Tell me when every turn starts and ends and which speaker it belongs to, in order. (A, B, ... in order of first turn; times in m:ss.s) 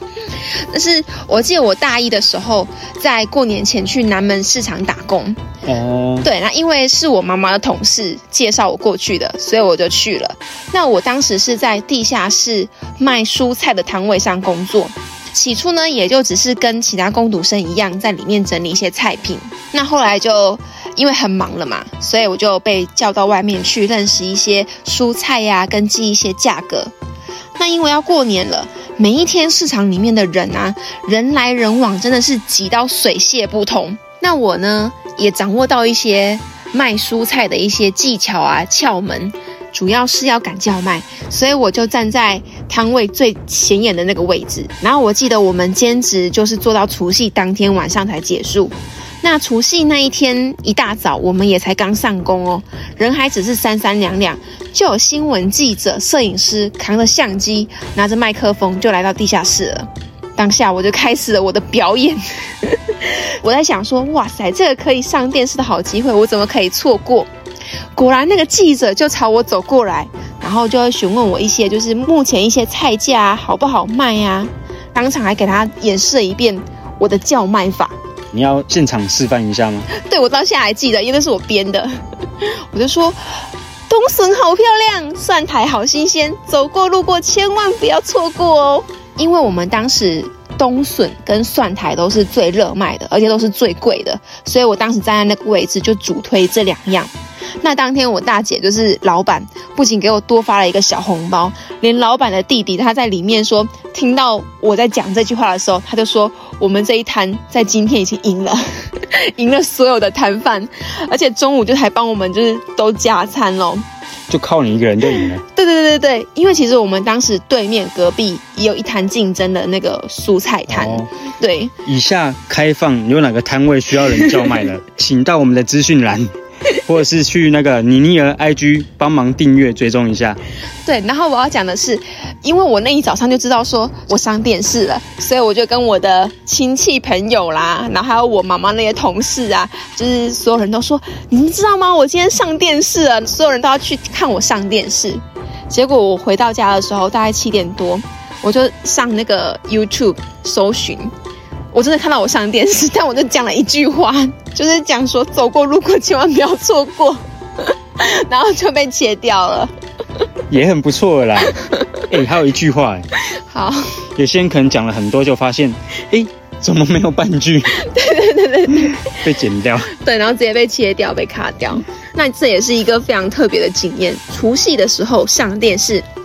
0:00.4-0:05.4 A
0:05.6-0:06.3 B
0:06.2-0:26.9 A
0:27.6-1:07.3 A
1:07.9-1:18.0 A
1:18.3-1:19.9 B
1:19.9-1:21.9 A
1:22.4-1:53.8 A
1:54.3-1:55.4 B
1:55.5-2:01.7 A
2:00.7-2:01.1 B
2:01.8-2:10.4 B
2:10.8-2:31.1 A
2:31.7-2:39.7 A
2:40.5-2:41.6 B
2:41.6-2:42.0 A
2:42.1-2:43.1 B
2:43.3-2:44.0 A
2:44.2-2:47.8 B
2:47.7-2:49.2 A
2:48.9-2:49.9 B
2:49.9-2:56.0 A